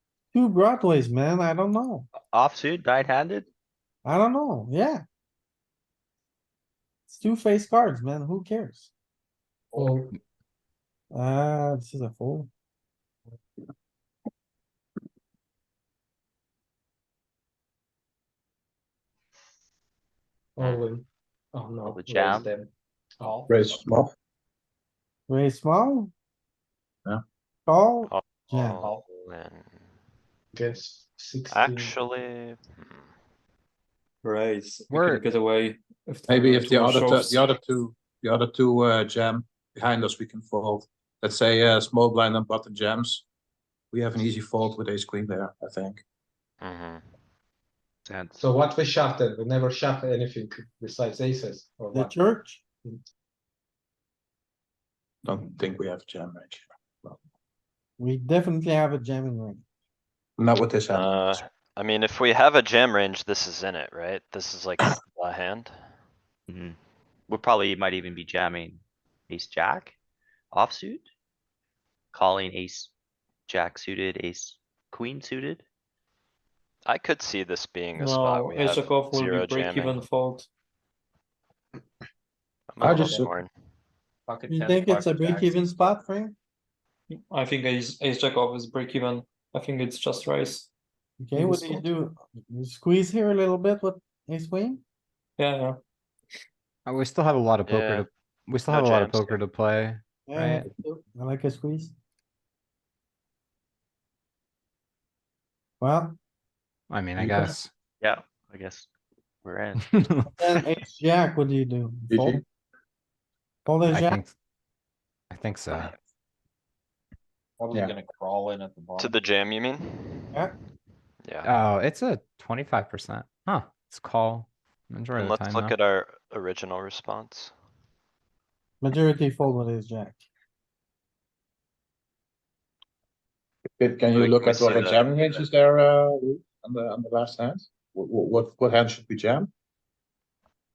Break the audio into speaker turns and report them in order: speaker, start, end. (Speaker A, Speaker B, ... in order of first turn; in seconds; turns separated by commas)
Speaker A: 0.3-2.1, Speaker B: 2.3-3.5, Speaker A: 4.0-5.0, Speaker A: 7.1-8.9, Speaker C: 9.8-10.1, Speaker A: 11.1-12.5, Speaker C: 20.6-23.8, Speaker B: 21.9-22.5, Speaker D: 23.5-24.1, Speaker A: 25.3-26.1, Speaker A: 27.7-28.8, Speaker E: 28.1-29.9, Speaker C: 30.5-31.9, Speaker E: 31.5-33.1, Speaker F: 34.2-37.5, Speaker G: 34.9-35.2, Speaker D: 36.3-43.2, Speaker D: 43.9-46.0, Speaker E: 46.6-47.0, Speaker B: 48.0-48.4, Speaker C: 48.4-52.2, Speaker A: 51.9-52.6, Speaker D: 55.2-57.2, Speaker A: 58.0-59.6, Speaker D: 60.4-61.4, Speaker E: 60.9-65.7, Speaker B: 66.5-66.8, Speaker B: 67.3-69.9, Speaker B: 70.5-71.0, Speaker B: 72.1-72.9, Speaker B: 73.5-75.6, Speaker E: 76.8-80.0, Speaker F: 78.0-80.5, Speaker E: 82.7-83.5, Speaker D: 82.8-83.3, Speaker H: 84.2-86.0, Speaker A: 84.5-86.3, Speaker F: 87.1-90.7, Speaker A: 91.2-94.8, Speaker F: 91.3-91.8, Speaker F: 95.4-95.8, Speaker G: 96.8-100.7, Speaker E: 97.6-98.0, Speaker E: 98.7-99.4, Speaker A: 100.3-101.9, Speaker A: 105.8-106.2, Speaker G: 106.9-107.7, Speaker D: 107.2-107.5, Speaker B: 108.0-108.9, Speaker B: 109.4-109.8, Speaker G: 109.9-110.6, Speaker A: 110.3-112.4, Speaker D: 112.1-112.4, Speaker A: 113.7-114.2, Speaker G: 113.9-114.3, Speaker G: 115.3-115.9, Speaker H: 117.6-119.2, Speaker E: 119.0-120.4, Speaker E: 121.2-121.5, Speaker G: 121.4-125.7, Speaker E: 125.1-127.5, Speaker A: 128.8-130.2, Speaker D: 133.8-139.5, Speaker E: 134.1-135.5